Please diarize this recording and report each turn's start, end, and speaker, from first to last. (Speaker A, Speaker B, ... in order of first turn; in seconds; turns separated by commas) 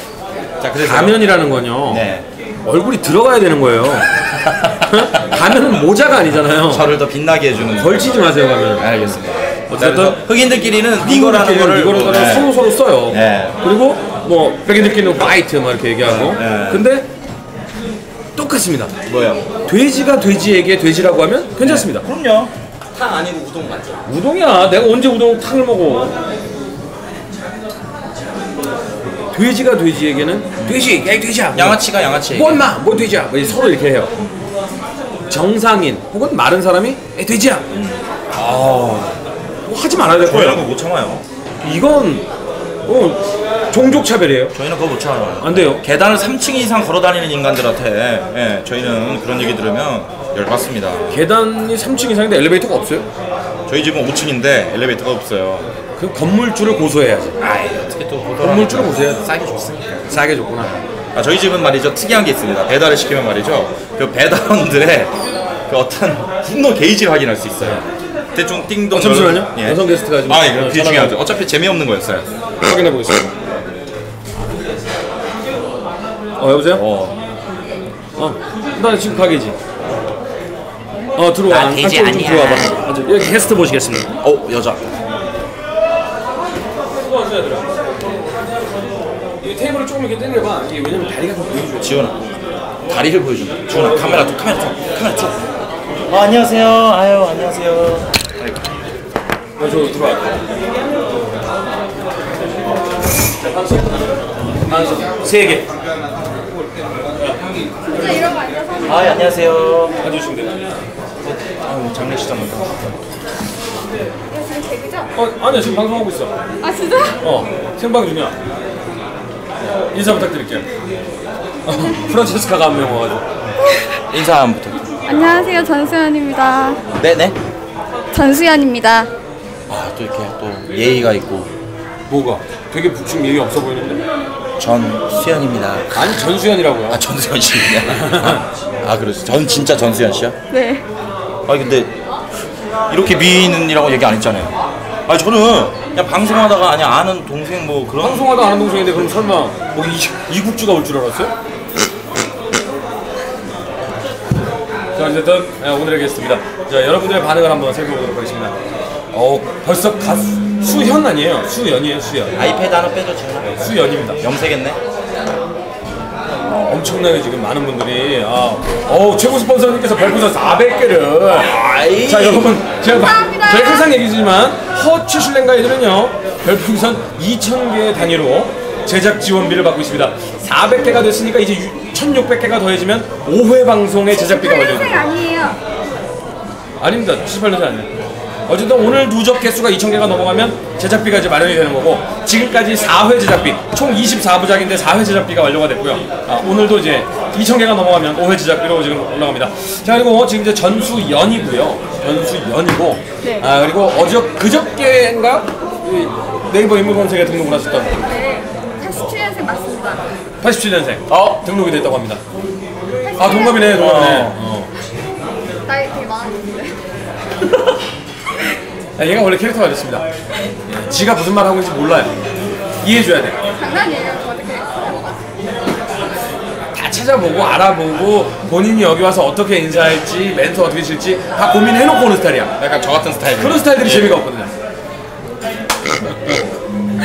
Speaker A: 0.6-1.3, Speaker B: 0.8-2.0, Speaker A: 1.9-2.2, Speaker B: 2.6-4.1, Speaker A: 4.4-5.6, Speaker B: 4.8-6.9, Speaker A: 6.6-8.1, Speaker B: 7.7-9.1, Speaker A: 8.8-12.5, Speaker B: 9.7-10.2, Speaker B: 11.0-17.1, Speaker A: 13.1-13.6, Speaker A: 16.0-16.8, Speaker B: 18.4-18.9, Speaker A: 19.1-19.5, Speaker B: 19.6-22.0, Speaker A: 21.6-24.0, Speaker B: 24.1-26.1, Speaker B: 29.3-34.1, Speaker A: 31.5-32.7, Speaker B: 35.3-37.7, Speaker A: 37.7-38.0, Speaker B: 38.3-40.6, Speaker A: 40.1-41.2, Speaker B: 41.6-42.3, Speaker B: 42.9-44.5, Speaker A: 44.5-51.1, Speaker B: 45.4-45.8, Speaker B: 51.1-53.1, Speaker A: 53.7-55.7, Speaker B: 56.0-57.4, Speaker A: 57.4-60.1, Speaker B: 58.4-59.2, Speaker B: 60.1-60.8, Speaker A: 61.1-65.1, Speaker A: 65.7-67.8, Speaker A: 68.3-72.3, Speaker B: 68.9-71.2, Speaker B: 72.6-73.3, Speaker B: 76.4-76.8, Speaker A: 76.7-77.2, Speaker B: 78.2-79.5, Speaker B: 81.2-84.1, Speaker A: 81.5-82.8, Speaker A: 84.2-84.9, Speaker B: 86.9-88.0, Speaker B: 89.4-92.1, Speaker A: 91.8-92.2, Speaker A: 92.9-95.4, Speaker B: 93.7-94.3, Speaker A: 96.1-98.6, Speaker B: 99.6-100.4, Speaker B: 103.3-105.7, Speaker C: 107.8-109.4, Speaker A: 108.8-110.0, Speaker B: 110.0-110.5, Speaker A: 111.2-113.0, Speaker C: 114.3-115.1, Speaker B: 115.1-116.3, Speaker C: 116.6-117.2, Speaker B: 117.2-118.3, Speaker B: 119.8-120.7, Speaker B: 121.7-123.2, Speaker C: 123.6-124.0, Speaker A: 124.1-125.3, Speaker C: 125.0-126.8, Speaker A: 126.9-127.3, Speaker C: 128.1-129.1, Speaker A: 129.7-131.5, Speaker B: 132.1-134.0, Speaker A: 134.6-136.1, Speaker B: 135.9-137.0, Speaker A: 136.9-140.3, Speaker B: 137.8-138.4, Speaker C: 140.5-140.8, Speaker A: 141.4-142.0, Speaker A: 142.9-144.5, Speaker A: 145.1-148.3, Speaker B: 148.0-151.3, Speaker B: 154.9-158.6, Speaker B: 159.1-162.4, Speaker A: 162.3-164.8, Speaker B: 163.4-164.2, Speaker B: 166.4-185.1, Speaker A: 171.3-172.5, Speaker C: 172.8-173.9, Speaker C: 184.1-185.6, Speaker B: 186.8-187.9, Speaker B: 188.5-207.9, Speaker C: 203.2-203.5, Speaker C: 208.0-210.0, Speaker B: 210.4-212.2, Speaker A: 211.1-211.4, Speaker C: 213.0-214.1, Speaker B: 213.2-214.7, Speaker A: 213.6-214.4, Speaker C: 215.7-216.8, Speaker B: 219.0-220.0, Speaker B: 220.7-222.2, Speaker B: 222.8-223.4, Speaker C: 223.5-225.3, Speaker B: 226.7-232.5, Speaker A: 232.6-234.2, Speaker B: 233.4-234.5